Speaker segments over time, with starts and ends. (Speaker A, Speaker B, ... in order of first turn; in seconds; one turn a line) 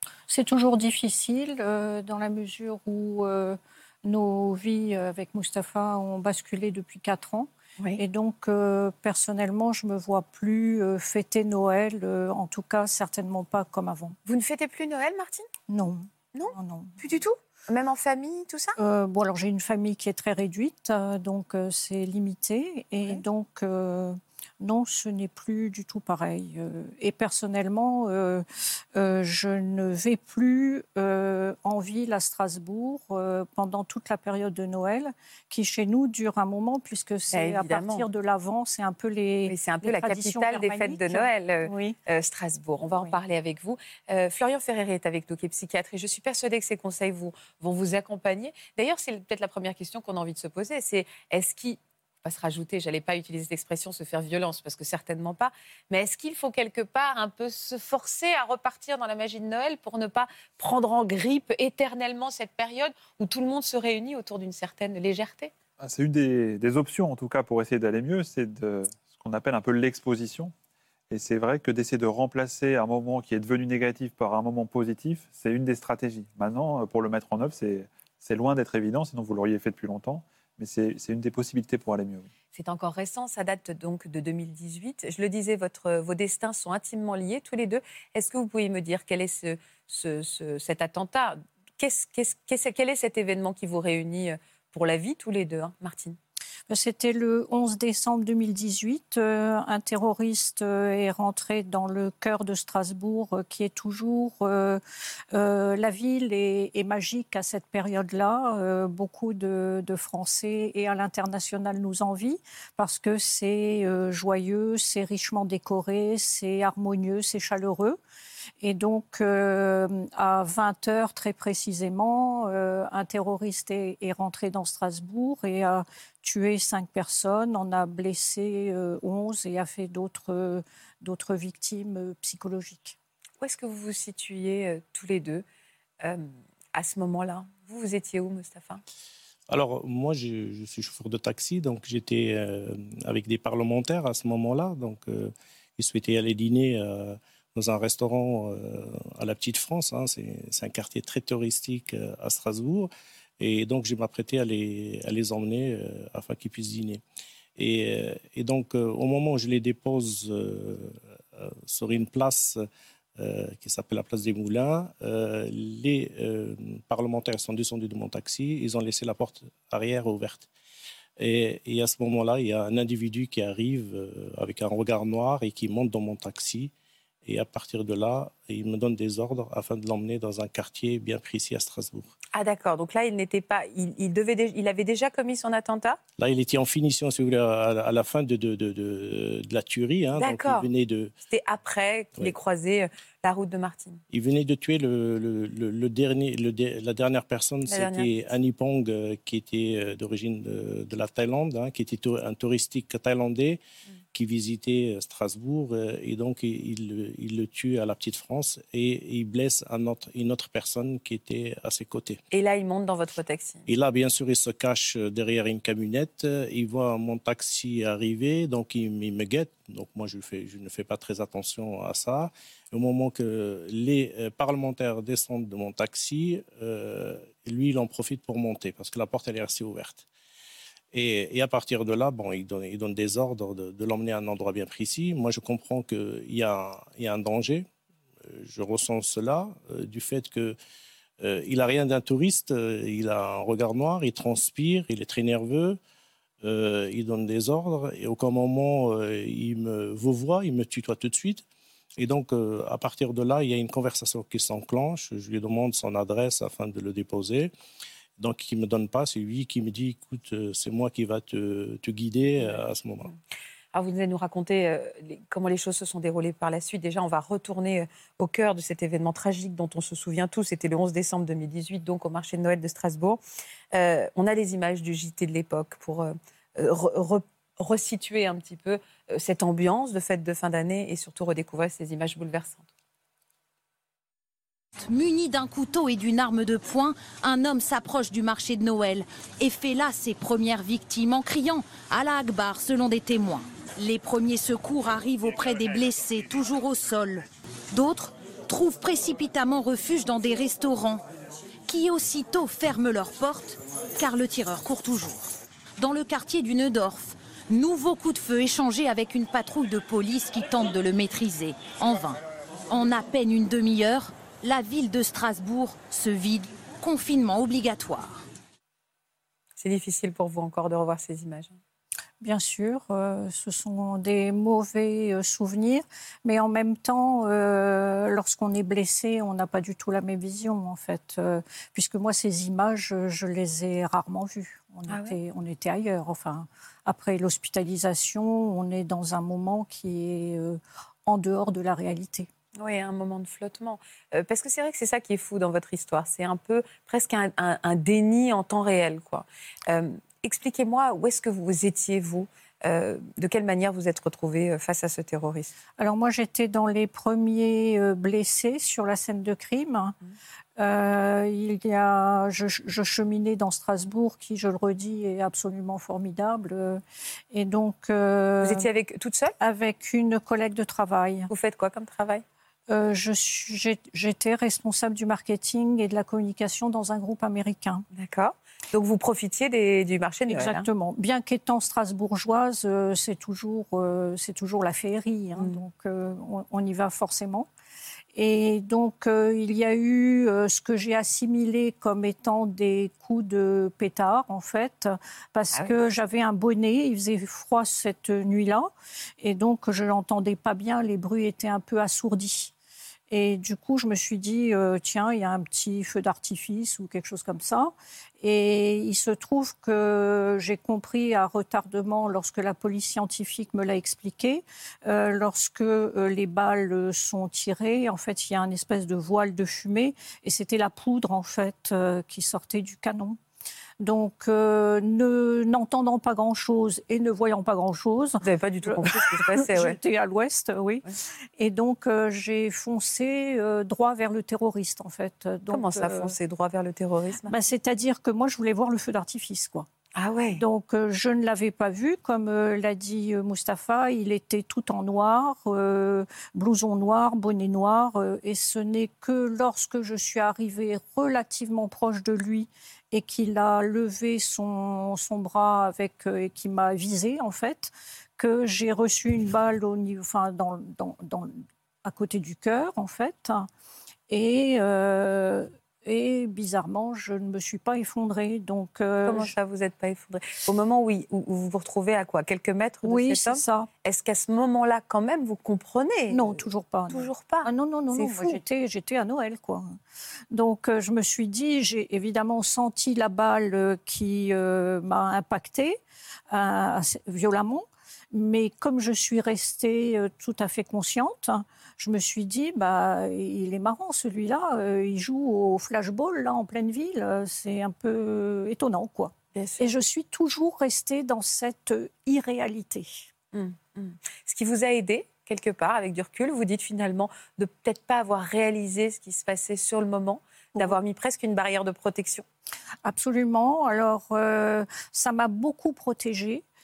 Speaker A: 0.3-14.2
Speaker B: 14.2-15.5
Speaker A: 15.7-17.0
Speaker B: 16.3-18.8
Speaker A: 18.8-42.0
Speaker B: 37.3-38.1
Speaker B: 39.5-65.5
Speaker A: 42.8-43.1
Speaker C: 65.8-70.5
Speaker C: 71.1-82.3
Speaker B: 82.5-96.2
Speaker A: 96.7-104.8
Speaker A: 105.3-118.0
Speaker A: 118.6-132.9
Speaker B: 133.4-135.4
Speaker B: 136.0-138.8
Speaker D: 139.5-157.0
Speaker D: 157.6-162.6
Speaker D: 163.2-170.5
Speaker D: 171.2-176.7
Speaker D: 177.2-182.1
Speaker B: 182.3-186.0
Speaker D: 186.2-191.1
Speaker B: 190.2-190.7
Speaker B: 191.3-194.0
Speaker D: 194.1-203.6
Speaker B: 197.7-198.1
Speaker D: 204.1-212.2
Speaker B: 212.3-213.6
Speaker D: 213.7-230.1
Speaker D: 230.9-237.7
Speaker D: 238.2-240.6
Speaker D: 241.2-245.8
Speaker D: 246.4-251.4
Speaker D: 252.0-257.5
Speaker D: 258.2-263.1
Speaker B: 262.4-263.1
Speaker B: 263.7-273.2
Speaker B: 273.7-282.7
Speaker E: 284.8-301.0
Speaker E: 301.7-318.2
Speaker B: 319.6-321.6
Speaker A: 322.2-342.3
Speaker B: 334.9-335.2
Speaker B: 342.6-355.5
Speaker A: 355.8-359.9
Speaker A: 360.6-368.6
Speaker B: 368.4-369.3
Speaker A: 369.4-371.3
Speaker B: 371.3-372.2
Speaker A: 372.7-377.8
Speaker B: 377.9-380.6
Speaker A: 380.3-387.5
Speaker B: 385.4-385.6
Speaker A: 388.1-398.7
Speaker A: 399.2-402.5
Speaker A: 403.1-423.2
Speaker A: 423.8-430.8
Speaker B: 428.2-429.8
Speaker A: 431.4-436.1
Speaker B: 435.5-437.3
Speaker A: 437.3-439.7
Speaker B: 439.9-440.4
Speaker A: 440.4-463.5
Speaker A: 464.1-469.3
Speaker B: 469.1-476.4
Speaker A: 472.8-473.7
Speaker A: 476.1-479.8
Speaker B: 476.9-478.4
Speaker A: 480.3-485.8
Speaker A: 486.3-503.1
Speaker B: 499.3-499.7
Speaker B: 503.3-512.2
Speaker A: 512.8-516.4